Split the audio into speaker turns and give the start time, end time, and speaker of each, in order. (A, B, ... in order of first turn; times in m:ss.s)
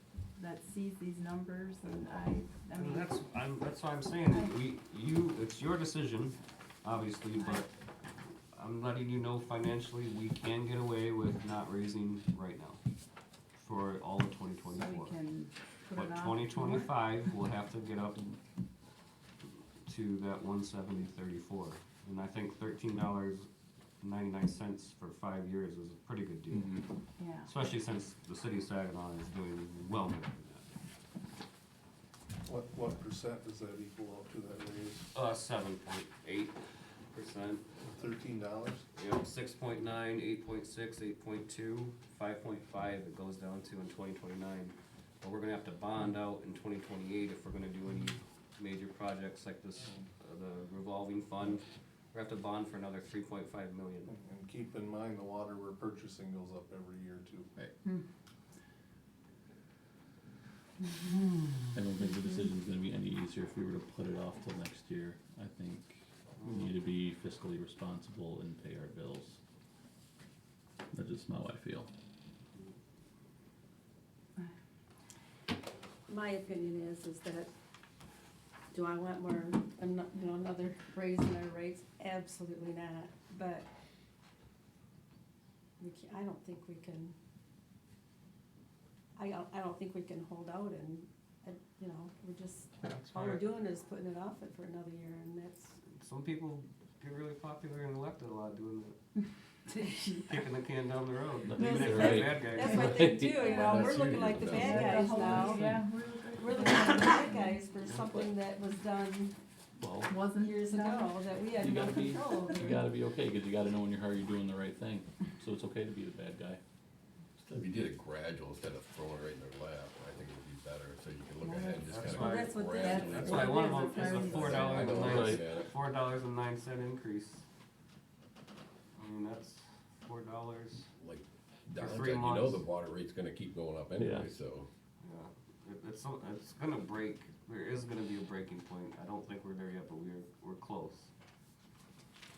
0:00.4-0:03.1 A
0:02.7-0:07.7 B
0:04.2-0:04.5 A
0:08.5-0:12.8 B
0:13.5-0:15.2 B
0:14.7-0:17.0 A
0:15.9-0:18.2 B
0:19.8-0:23.5 B
0:24.0-0:26.7 B
0:26.5-0:26.8 C
0:27.2-0:27.5 A
0:27.4-0:30.7 B
0:32.4-0:35.1 D
0:35.1-0:36.6 B
0:37.1-0:37.6 B
0:37.8-0:38.8 D
0:38.9-0:54.1 B
0:54.1-0:57.5 D
1:01.7-1:09.4 C
1:06.4-1:06.7 B
1:10.9-1:11.9 C
1:16.1-1:17.5 E
1:18.7-1:23.7 E
1:25.8-1:27.1 E
1:29.2-1:35.7 E
1:32.8-1:33.4 B
1:35.9-1:39.0 B
1:39.7-1:40.4 A
1:40.2-1:43.0 B
1:41.4-1:43.6 C
1:41.6-1:45.7 E
1:43.3-1:45.5 F
1:43.6-1:47.6 A
1:45.5-1:45.8 C
1:46.3-1:49.4 E
1:49.8-1:50.1 C
1:50.1-1:51.2 A
1:50.3-1:52.9 E
1:51.6-1:56.6 C
1:57.5-2:05.8 F
2:01.4-2:01.9 A
2:01.8-2:07.4 B
2:02.0-2:04.8 E
2:02.8-2:05.0 A
2:05.0-2:05.4 C
2:08.9-2:10.9 B
2:11.0-2:14.7 F
2:11.8-2:12.7 B
2:14.0-2:14.3 C
2:15.0-2:21.1 B